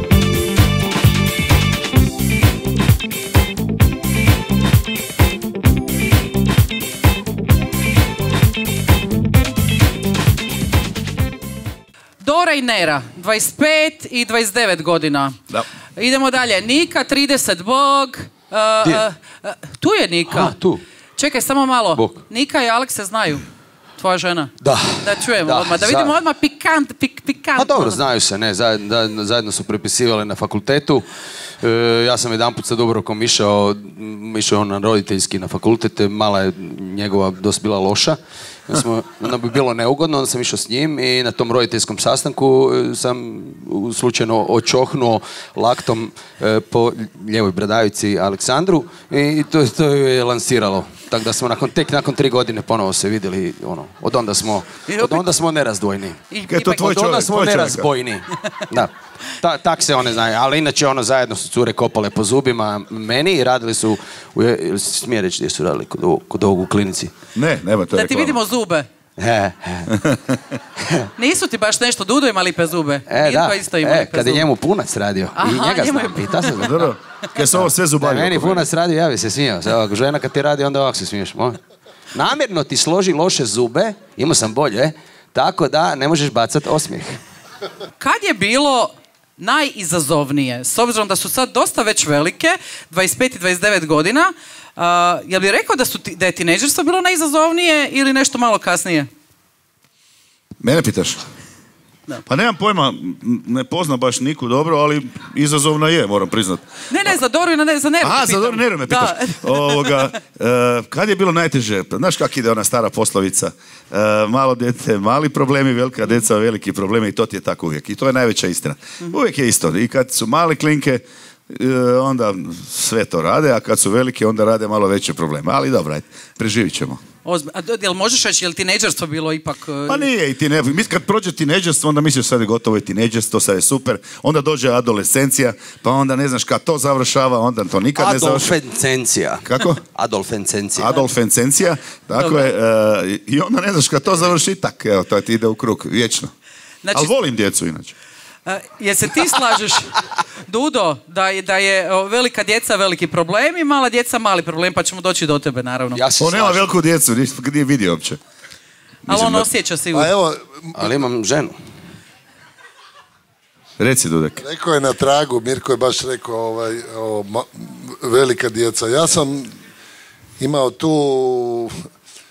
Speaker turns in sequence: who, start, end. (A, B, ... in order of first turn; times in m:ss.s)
0:12.2-0:15.4 A
0:16.0-0:20.6 A
0:20.3-0:20.8 B
0:21.2-0:23.4 A
0:22.0-0:22.2 B
0:24.0-0:28.0 A
0:24.6-0:26.2 B
0:27.6-0:31.0 B
0:31.6-0:56.2 B
0:54.9-0:55.3 A
0:56.3-0:56.9 A
0:56.5-0:57.9 C
0:56.8-1:07.2 B
1:07.4-1:08.4 C
1:08.0-1:08.9 A
1:09.2-1:09.9 B
1:09.9-1:10.6 C
1:10.8-1:11.1 B
1:11.2-1:14.5 A
1:13.1-1:16.8 B
1:15.4-1:16.7 A
1:16.6-1:18.7 C
1:17.5-1:21.6 B
1:22.1-1:27.2 B
1:28.0-1:39.1 A
1:40.6-1:41.2 C
1:42.3-1:46.7 C
1:46.9-1:50.1 A
1:48.0-2:07.0 C
2:07.2-2:10.1 A
2:09.9-2:18.6 C
2:18.0-2:21.0 B
2:19.4-2:19.8 C
2:20.8-2:26.3 C
2:22.2-2:22.5 A
2:26.8-2:27.1 A
2:26.9-2:27.9 C
2:28.5-2:36.0 A
2:35.9-2:36.7 B
2:36.2-2:38.2 C
2:39.1-2:40.1 A
2:39.1-2:39.5 C
2:39.9-2:40.9 D
2:40.8-2:41.6 B
2:43.8-2:44.4 C
2:44.4-2:49.5 D
2:50.4-2:51.8 D